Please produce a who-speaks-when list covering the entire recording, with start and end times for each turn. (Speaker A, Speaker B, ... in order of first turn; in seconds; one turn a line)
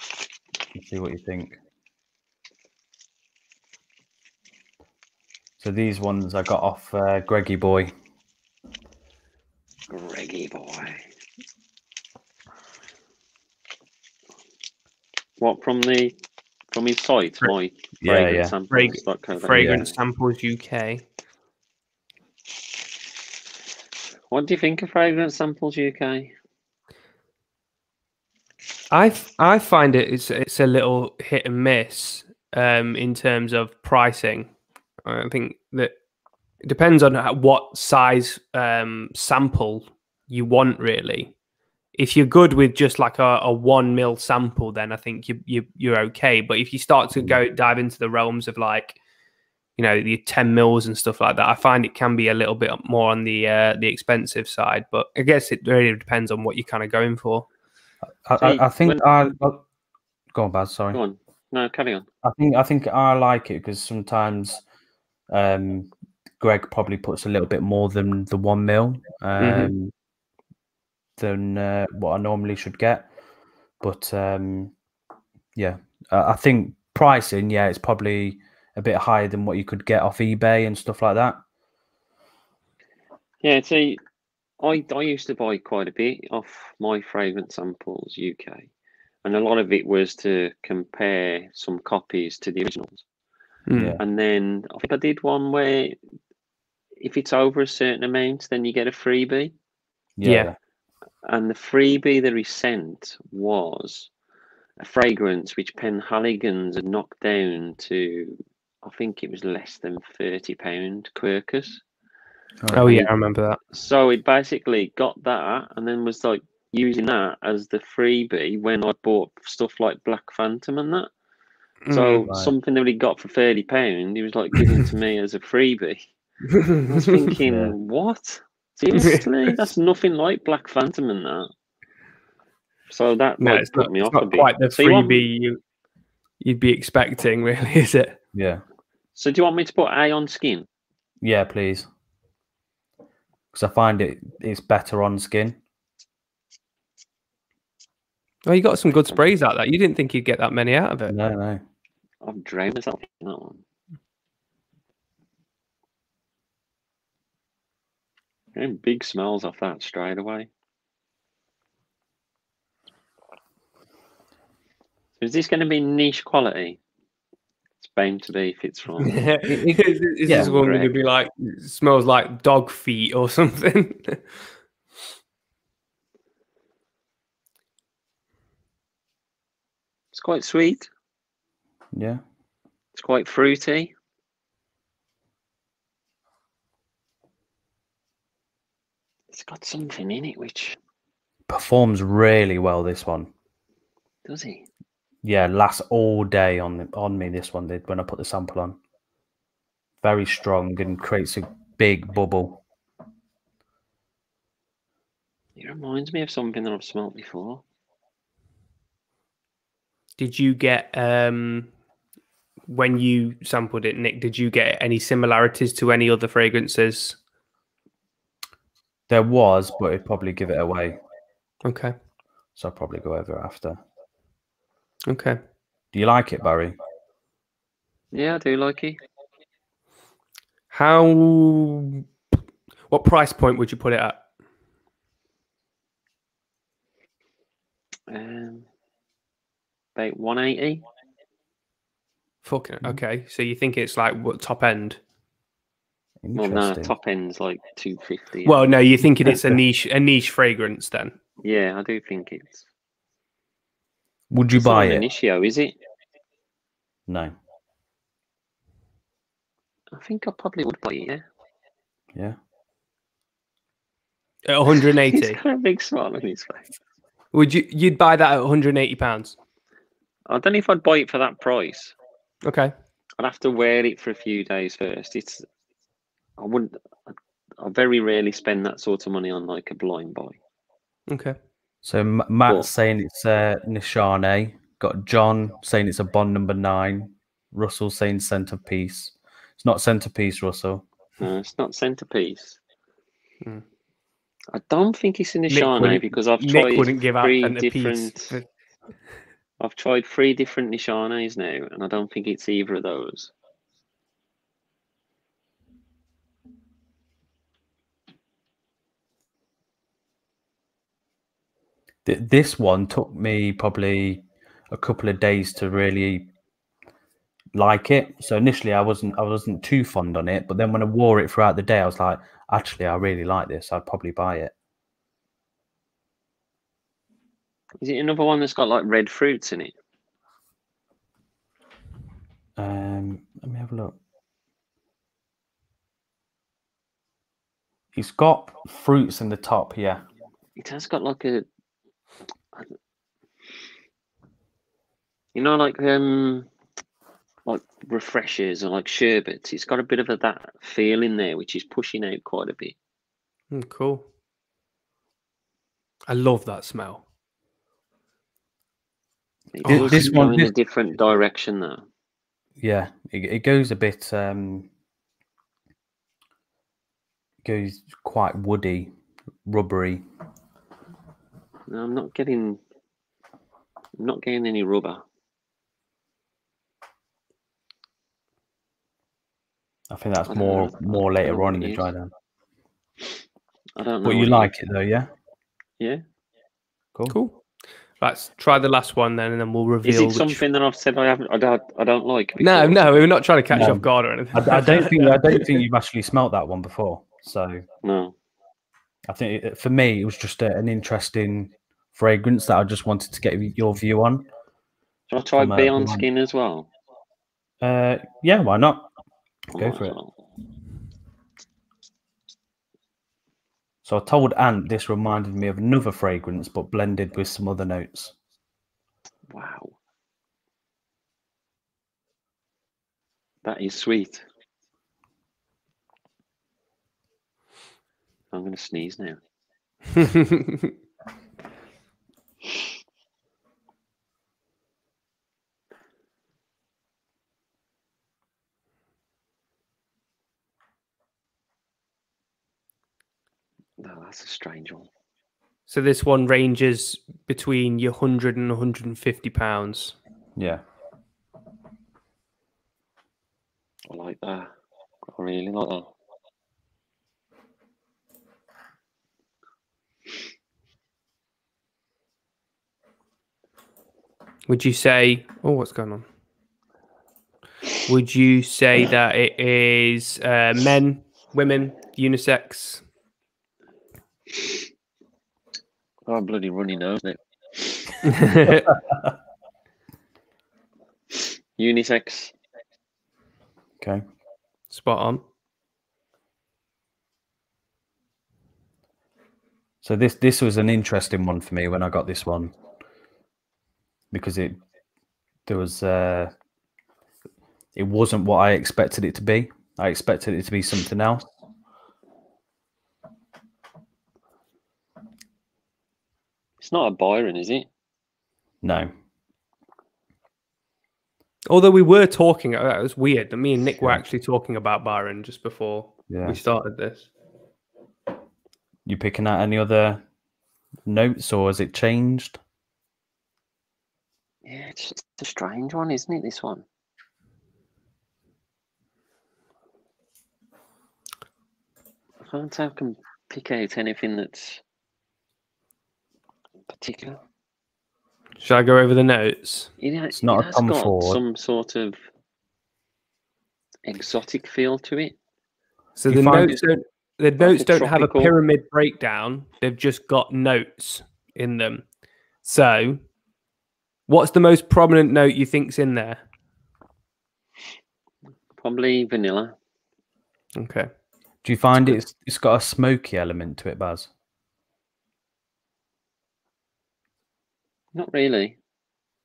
Speaker A: 0.7-1.6
Speaker A: 5.6-7.9
Speaker B: 9.9-11.1
Speaker B: 15.4-16.1
Speaker B: 16.7-19.9
Speaker A: 18.0-18.5
Speaker C: 18.7-21.0
Speaker A: 19.5-19.8
Speaker B: 24.3-26.3
Speaker C: 28.9-34.5
Speaker C: 35.0-35.9
Speaker C: 36.6-41.3
Speaker C: 42.0-49.0
Speaker C: 49.8-57.5
Speaker A: 58.2-59.6
Speaker B: 58.4-59.1
Speaker A: 60.3-61.0
Speaker B: 60.9-62.1
Speaker A: 62.2-64.6
Speaker A: 65.3-69.9
Speaker C: 69.4-69.7
Speaker A: 71.2-73.1
Speaker A: 73.8-74.7
Speaker A: 75.5-81.4
Speaker B: 83.4-84.0
Speaker B: 84.6-88.7
Speaker B: 89.2-93.0
Speaker C: 93.7-94.0
Speaker A: 93.7-94.0
Speaker B: 94.0-96.0
Speaker B: 97.0-99.5
Speaker A: 100.2-100.5
Speaker C: 100.2-100.5
Speaker B: 101.2-104.1
Speaker B: 104.8-111.8
Speaker A: 112.6-113.0
Speaker C: 112.7-113.6
Speaker B: 113.7-121.1
Speaker C: 121.8-122.3
Speaker B: 121.9-126.0
Speaker C: 126.5-127.3
Speaker B: 126.8-131.5
Speaker A: 127.5-127.7
Speaker C: 128.9-129.2
Speaker B: 132.9-135.3
Speaker C: 133.4-135.6
Speaker C: 136.4-138.2
Speaker A: 138.3-138.6
Speaker B: 139.1-140.7
Speaker A: 141.2-141.9
Speaker A: 143.5-145.6
Speaker C: 148.4-151.1
Speaker B: 148.9-149.3
Speaker A: 151.1-151.6
Speaker B: 152.2-153.6
Speaker B: 158.5-160.5
Speaker B: 165.2-166.8
Speaker B: 167.8-169.3
Speaker C: 169.0-174.3
Speaker A: 169.5-170.5
Speaker B: 170.3-170.9
Speaker B: 180.1-180.9
Speaker A: 181.9-182.2
Speaker B: 182.9-183.9
Speaker B: 189.3-190.8
Speaker A: 191.5-193.3
Speaker B: 194.2-194.7
Speaker A: 195.2-198.8
Speaker A: 200.0-202.6
Speaker B: 205.6-207.6
Speaker C: 210.2-211.7
Speaker C: 212.7-217.2
Speaker A: 219.1-221.0
Speaker C: 221.6-221.9
Speaker A: 222.6-223.8
Speaker C: 225.1-225.4
Speaker A: 225.9-226.8
Speaker B: 228.1-229.0
Speaker C: 230.7-232.1
Speaker C: 232.9-234.2
Speaker B: 238.1-238.7
Speaker B: 239.9-240.8
Speaker C: 242.4-245.0
Speaker A: 246.2-246.9
Speaker B: 246.3-248.7
Speaker C: 248.4-251.1
Speaker A: 249.3-249.5
Speaker B: 251.4-252.6
Speaker A: 254.3-255.0
Speaker B: 254.6-255.7
Speaker A: 257.1-257.3
Speaker B: 259.9-261.2
Speaker C: 264.5-265.4
Speaker B: 265.1-266.6
Speaker C: 267.3-269.4
Speaker B: 270.3-271.9
Speaker C: 272.4-272.7
Speaker B: 273.2-275.4
Speaker B: 276.4-280.4
Speaker C: 281.1-281.4
Speaker A: 281.8-290.8
Speaker B: 291.2-292.6
Speaker B: 294.5-298.3
Speaker C: 295.5-298.4
Speaker B: 299.6-303.3
Speaker A: 312.0-316.3
Speaker A: 317.5-324.5
Speaker B: 327.8-329.7
Speaker A: 332.6-333.9
Speaker A: 337.9-340.0
Speaker B: 340.6-341.4
Speaker B: 345.3-346.5
Speaker B: 347.4-352.7
Speaker C: 353.5-354.0
Speaker C: 356.1-357.0
Speaker B: 359.5-361.8
Speaker C: 359.6-360.1
Speaker A: 359.7-360.5
Speaker A: 362.6-364.7
Speaker A: 367.4-368.9
Speaker A: 369.4-370.0
Speaker B: 371.7-372.6
Speaker B: 374.0-375.0
Speaker A: 379.9-382.1
Speaker B: 380.3-381.9
Speaker B: 383.8-384.5
Speaker A: 384.0-385.1
Speaker C: 387.1-387.4
Speaker C: 388.0-390.4
Speaker B: 389.8-392.8
Speaker C: 392.4-395.6
Speaker A: 393.5-397.6
Speaker B: 397.8-398.1
Speaker A: 399.1-404.3
Speaker B: 405.1-406.7
Speaker A: 405.4-406.1
Speaker A: 407.6-408.9
Speaker A: 409.5-409.9
Speaker B: 409.5-410.1
Speaker A: 413.8-418.1
Speaker B: 419.3-419.7
Speaker B: 423.4-424.2
Speaker B: 428.3-429.2
Speaker C: 429.9-430.7
Speaker B: 443.8-444.9
Speaker C: 445.7-449.9
Speaker A: 450.4-450.6
Speaker B: 453.9-454.5
Speaker B: 455.1-455.9
Speaker C: 464.5-466.1
Speaker C: 467.9-472.8
Speaker B: 476.1-478.1
Speaker C: 478.0-478.7
Speaker B: 481.6-482.3
Speaker C: 484.7-485.2
Speaker A: 489.8-492.5
Speaker A: 494.1-494.6
Speaker A: 495.4-496.3
Speaker A: 497.7-501.2
Speaker B: 506.6-507.7
Speaker A: 508.6-508.9
Speaker C: 511.5-517.1
Speaker A: 516.1-516.4
Speaker A: 518.9-520.0
Speaker A: 520.8-522.4
Speaker B: 524.4-526.6
Speaker B: 532.2-534.6
Speaker B: 536.7-537.2
Speaker C: 538.4-539.7
Speaker B: 539.8-542.0
Speaker A: 540.1-541.2
Speaker B: 543.8-545.1
Speaker C: 546.0-551.8
Speaker A: 546.0-546.6
Speaker B: 547.4-548.3
Speaker C: 552.4-553.0
Speaker C: 554.1-556.2
Speaker B: 558.6-559.5
Speaker C: 560.5-560.9
Speaker A: 561.4-564.1
Speaker B: 567.9-568.5